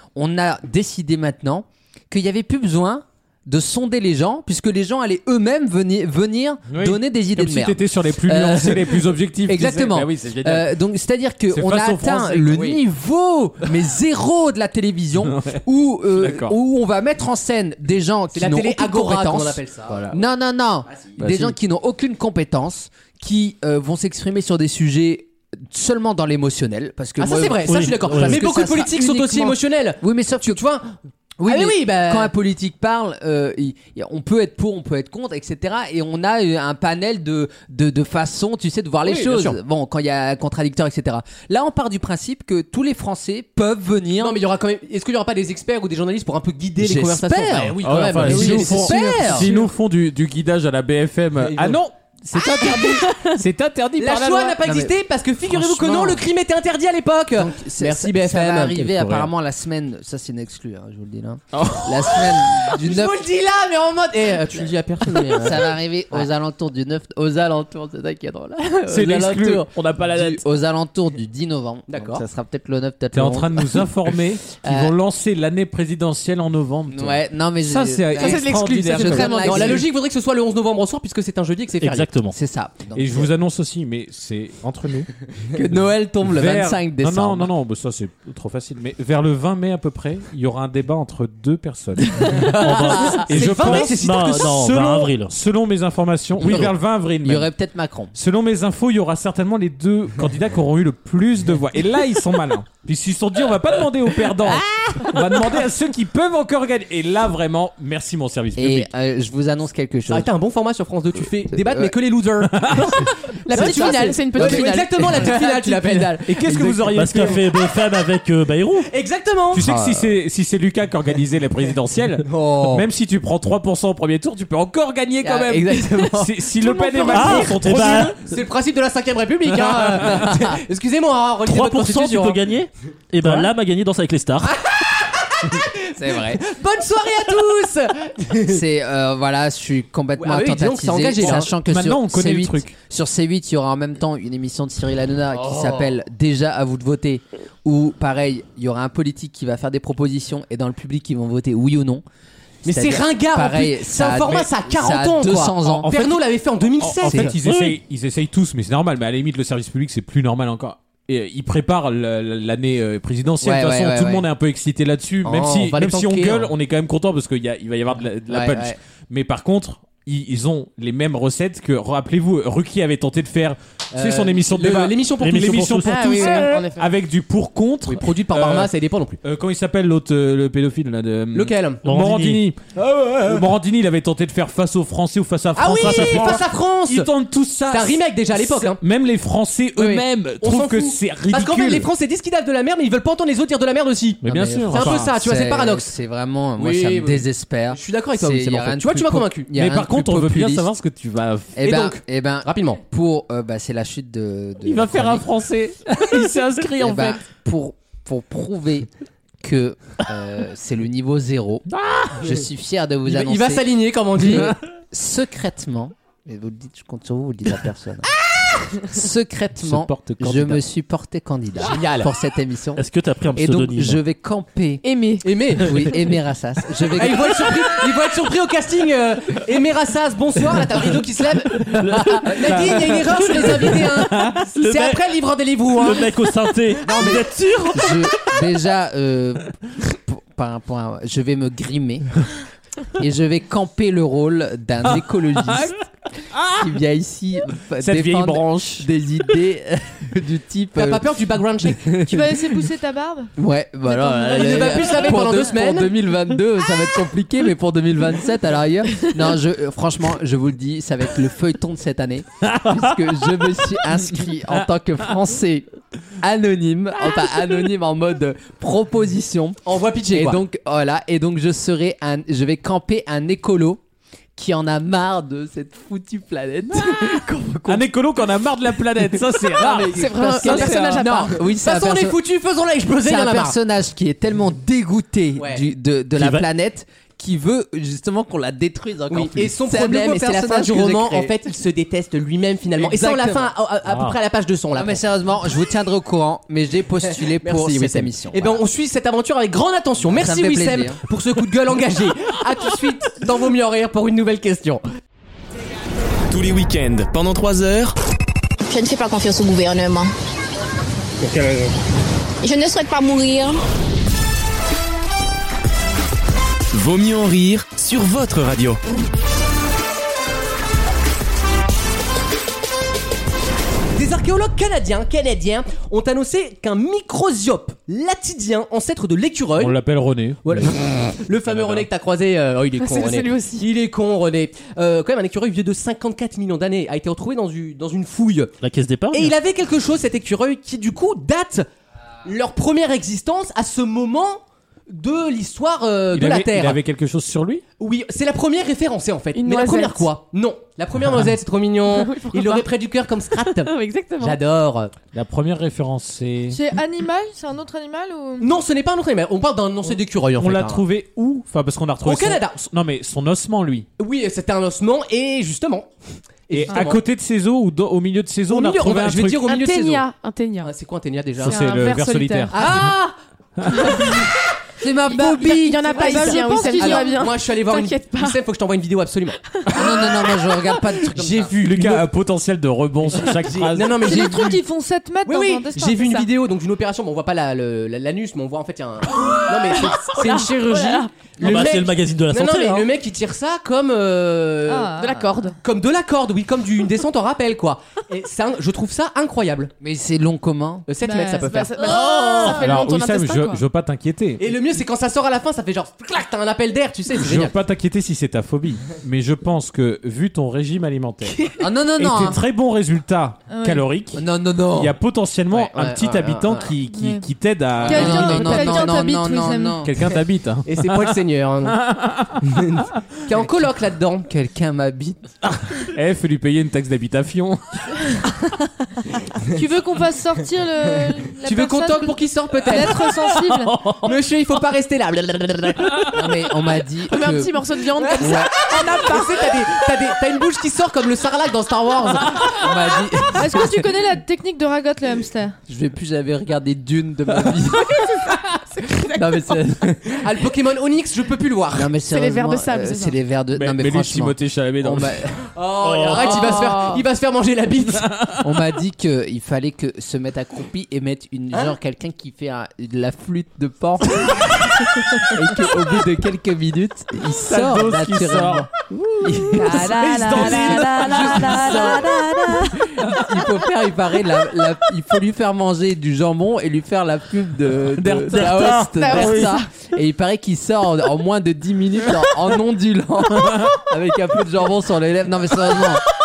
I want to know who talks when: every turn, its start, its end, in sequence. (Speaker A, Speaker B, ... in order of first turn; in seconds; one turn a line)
Speaker A: 0.2-30.6
Speaker B: 6.7-10.7
Speaker B: 11.5-12.6
Speaker C: 12.5-12.8
Speaker B: 15.2-15.6
Speaker B: 16.2-16.6
Speaker C: 18.3-20.1
Speaker B: 21.2-21.5
Speaker C: 27.2-30.9
Speaker D: 27.7-28.4
Speaker A: 31.4-44.4
Speaker C: 31.4-32.3
Speaker C: 39.0-39.6
Speaker C: 44.2-49.5
Speaker A: 46.8-49.6
Speaker B: 47.8-54.6
Speaker C: 51.4-51.8
Speaker C: 52.6-52.9
Speaker C: 54.0-59.3
Speaker A: 54.6-54.9
Speaker A: 55.5-56.3
Speaker A: 57.4-63.2
Speaker B: 61.5-62.5
Speaker C: 62.8-66.2
Speaker A: 65.3-73.9
Speaker B: 68.9-70.5
Speaker C: 71.9-72.2
Speaker B: 73.1-79.8
Speaker A: 74.6-74.9
Speaker A: 76.9-79.8
Speaker E: 78.2-79.8
Speaker C: 79.4-82.1
Speaker D: 81.8-82.4
Speaker A: 82.3-83.3
Speaker B: 82.9-85.1
Speaker A: 85.5-87.5
Speaker B: 86.2-97.5
Speaker D: 92.3-95.3
Speaker C: 92.4-94.5
Speaker A: 96.4-98.1
Speaker B: 98.1-108.9
Speaker A: 108.6-110.3
Speaker C: 110.1-117.3
Speaker A: 111.5-111.9
Speaker B: 112.5-113.1
Speaker E: 113.5-115.8
Speaker A: 113.5-114.6
Speaker B: 116.2-117.5
Speaker D: 116.9-118.9
Speaker C: 118.9-119.6
Speaker B: 119.5-128.2
Speaker A: 119.6-120.1
Speaker C: 122.2-122.8
Speaker C: 125.2-132.4
Speaker A: 125.4-125.9
Speaker D: 127.1-128.2
Speaker D: 131.4-134.6
Speaker B: 133.2-133.5
Speaker C: 134.4-138.6
Speaker A: 136.0-136.4
Speaker A: 138.5-152.0
Speaker C: 140.2-141.5
Speaker B: 141.2-142.7
Speaker C: 145.3-145.9
Speaker C: 152.6-157.3
Speaker A: 152.7-155.9
Speaker B: 155.8-156.2
Speaker B: 156.8-178.7
Speaker D: 157.4-157.8
Speaker A: 163.4-164.3
Speaker C: 165.2-166.5
Speaker A: 168.3-168.8
Speaker C: 173.9-176.6
Speaker D: 175.2-176.4
Speaker E: 175.9-176.9
Speaker C: 177.9-179.2
Speaker B: 179.2-191.9
Speaker C: 181.3-181.8
Speaker D: 181.8-182.4
Speaker C: 183.0-183.5
Speaker C: 185.6-187.1
Speaker D: 185.8-186.4
Speaker C: 187.7-188.8
Speaker C: 189.8-195.9
Speaker B: 194.2-195.1
Speaker A: 194.2-200.7
Speaker C: 196.6-199.5
Speaker B: 199.6-201.6
Speaker A: 201.6-205.2
Speaker C: 201.6-202.8
Speaker B: 204.7-207.2
Speaker A: 206.8-208.9
Speaker A: 209.4-213.7
Speaker B: 211.7-212.2
Speaker C: 213.1-214.6
Speaker A: 214.2-218.1
Speaker A: 218.7-227.5
Speaker B: 219.7-220.6
Speaker C: 221.6-222.1
Speaker D: 222.8-224.0
Speaker E: 224.8-225.3
Speaker C: 225.2-226.0
Speaker C: 226.9-236.2
Speaker D: 232.1-235.0
Speaker D: 235.8-238.0
Speaker A: 236.8-242.2
Speaker A: 242.9-245.8
Speaker B: 245.0-245.8
Speaker B: 246.3-246.8
Speaker A: 246.6-251.0
Speaker B: 247.8-248.9
Speaker C: 250.8-252.0
Speaker F: 252.0-253.3
Speaker A: 253.4-265.7
Speaker F: 253.9-254.8
Speaker C: 254.3-255.9
Speaker B: 262.5-262.8
Speaker A: 266.2-273.8
Speaker C: 269.6-270.4
Speaker A: 274.4-277.9
Speaker B: 277.7-280.9
Speaker A: 279.4-282.2
Speaker E: 279.8-281.5
Speaker C: 280.4-280.7
Speaker C: 281.5-283.6
Speaker A: 283.0-291.3
Speaker C: 285.4-285.6
Speaker D: 286.2-286.5
Speaker C: 289.1-295.0
Speaker A: 292.8-293.5
Speaker D: 293.9-294.1
Speaker A: 294.8-298.6
Speaker C: 297.1-304.8
Speaker A: 300.1-301.0
Speaker G: 306.3-308.0
Speaker H: 308.7-310.1
Speaker H: 312.4-313.6
Speaker G: 316.7-318.8
Speaker C: 323.9-329.8
Speaker B: 329.6-330.7
Speaker C: 330.4-338.5
Speaker B: 331.4-331.9
Speaker E: 332.8-333.7
Speaker D: 338.6-339.4
Speaker C: 339.1-341.7
Speaker C: 342.2-346.8
Speaker B: 346.1-347.6
Speaker C: 347.8-354.9
Speaker E: 349.4-350.1
Speaker E: 351.9-352.7
Speaker E: 353.4-354.4
Speaker B: 355.1-356.6
Speaker F: 356.5-358.5
Speaker C: 358.4-360.8
Speaker B: 360.4-363.9
Speaker C: 362.1-362.6
Speaker C: 364.0-365.9
Speaker C: 366.5-367.0
Speaker B: 366.5-369.4
Speaker C: 368.5-370.1
Speaker E: 369.4-370.7
Speaker C: 370.6-371.6
Speaker B: 371.4-372.6
Speaker E: 371.4-372.6
Speaker C: 372.5-373.1
Speaker B: 373.6-374.2
Speaker A: 374.8-376.4
Speaker E: 375.1-378.4
Speaker F: 375.9-377.2
Speaker C: 376.0-379.4
Speaker A: 379.7-381.9
Speaker C: 381.1-382.0
Speaker B: 381.6-384.1
Speaker C: 383.5-384.6
Speaker F: 384.0-386.2
Speaker C: 385.2-395.0
Speaker E: 389.8-391.1
Speaker D: 391.4-392.9
Speaker F: 394.7-395.5
Speaker E: 394.9-395.6
Speaker C: 395.6-399.7
Speaker A: 399.8-400.9
Speaker C: 400.9-402.6
Speaker F: 401.0-402.5
Speaker E: 401.1-403.6
Speaker B: 402.4-404.5
Speaker C: 404.4-407.5
Speaker B: 407.2-419.0
Speaker A: 411.5-412.4
Speaker F: 413.5-413.9
Speaker A: 414.1-415.0
Speaker C: 415.5-416.5
Speaker A: 415.8-416.6
Speaker F: 416.9-417.3
Speaker F: 417.8-419.8
Speaker A: 417.8-419.9
Speaker C: 417.9-418.2
Speaker B: 419.8-421.1
Speaker C: 420.6-421.8
Speaker B: 421.7-422.6
Speaker C: 422.4-424.3
Speaker A: 424.3-425.4
Speaker B: 425.4-428.2
Speaker F: 429.5-433.8
Speaker C: 431.4-433.1
Speaker C: 434.0-436.1
Speaker A: 436.1-437.6
Speaker E: 437.1-439.4
Speaker C: 438.0-442.6
Speaker A: 438.2-438.5
Speaker A: 442.5-443.9
Speaker F: 443.4-445.6
Speaker A: 445.7-448.4
Speaker A: 449.0-450.2
Speaker C: 450.2-451.9
Speaker A: 451.7-455.5
Speaker E: 452.0-453.2
Speaker B: 453.5-455.2
Speaker C: 455.5-458.1
Speaker D: 455.8-456.4
Speaker E: 456.1-457.0
Speaker B: 458.0-458.4
Speaker A: 458.4-468.7
Speaker B: 467.4-472.0
Speaker A: 469.2-486.0
Speaker F: 469.6-471.9
Speaker B: 478.0-479.5
Speaker D: 478.3-479.5
Speaker E: 478.8-479.7
Speaker B: 483.4-483.7